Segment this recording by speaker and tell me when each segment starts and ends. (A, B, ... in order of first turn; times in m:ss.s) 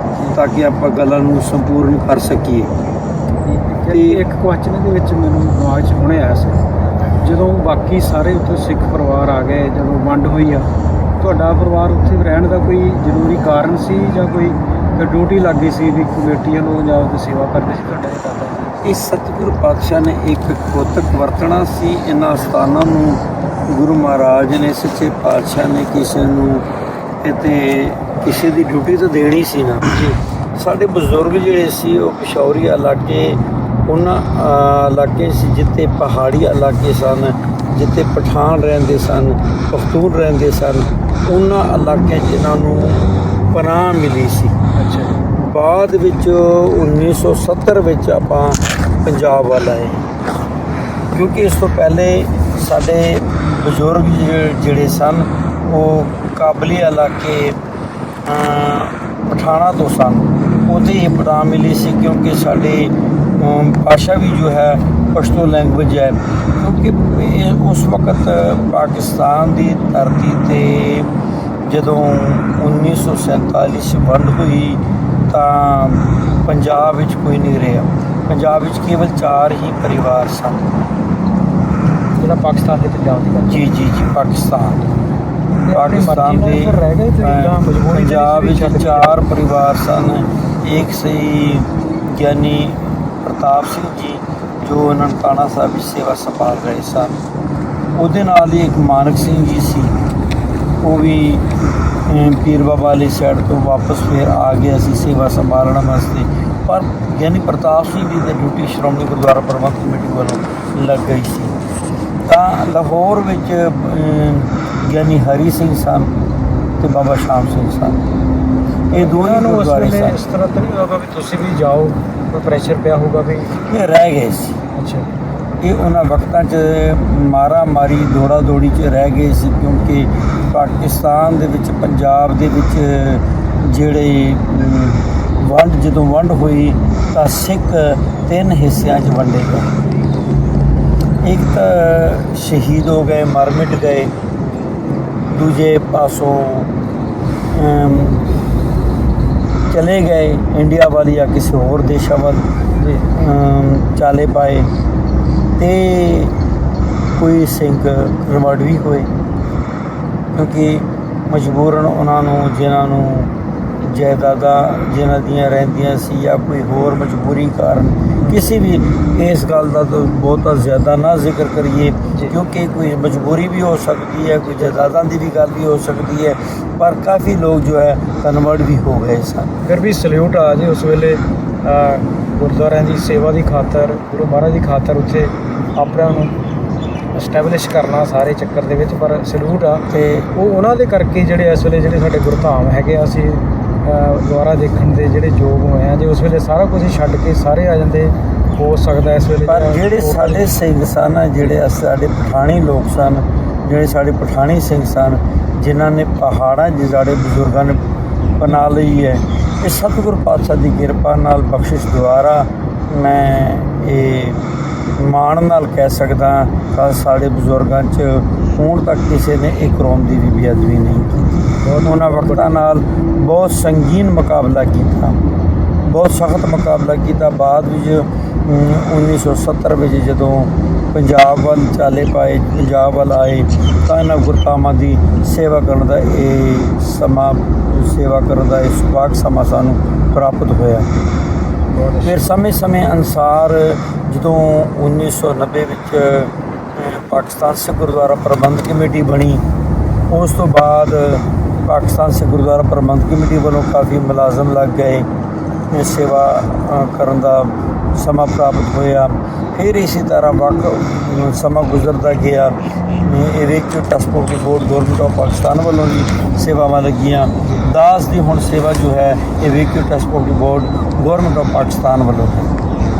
0:00.3-0:02.7 A
0:03.4-0:06.6 B
0:03.9-0:04.2 A
0:07.2-0:10.7 B
0:11.2-0:19.0 B
0:18.8-0:26.6 A
0:27.2-0:30.0 A
0:29.9-0:30.2 B
0:30.6-0:44.6 A
0:44.8-0:45.2 B
0:45.3-0:50.0 A
0:51.1-0:57.6 A
0:58.2-1:11.1 A
1:11.6-1:20.8 A
1:22.2-1:23.6 B
1:23.4-1:24.9 A
1:25.6-1:29.3 B
1:25.7-1:37.1 A
1:38.0-1:39.9 A
1:40.8-1:41.5 A
1:42.1-1:51.5 A
1:52.2-1:56.1 A
1:56.8-1:58.0 A
1:58.9-2:00.2 A
1:58.9-2:03.6 B
2:03.6-2:04.6 A
2:04.7-2:05.1 B
2:05.6-2:19.7 A
2:21.2-2:24.1 A
2:25.3-2:26.7 A
2:27.5-2:28.2 A
2:29.7-2:32.5 A
2:32.8-2:33.1 B
2:33.1-2:34.7 A
2:35.6-2:36.4 A
2:37.1-2:39.1 A
2:40.3-2:59.5 A
2:59.6-3:06.3 B
3:07.1-3:20.5 B
3:09.9-3:10.3 A
3:19.4-3:27.8 A
3:28.4-3:45.2 A
3:41.6-3:42.6 B
3:45.8-4:00.9 A
4:01.7-4:02.2 B
4:02.0-4:09.4 A
4:10.1-4:15.1 A
4:15.7-4:32.5 A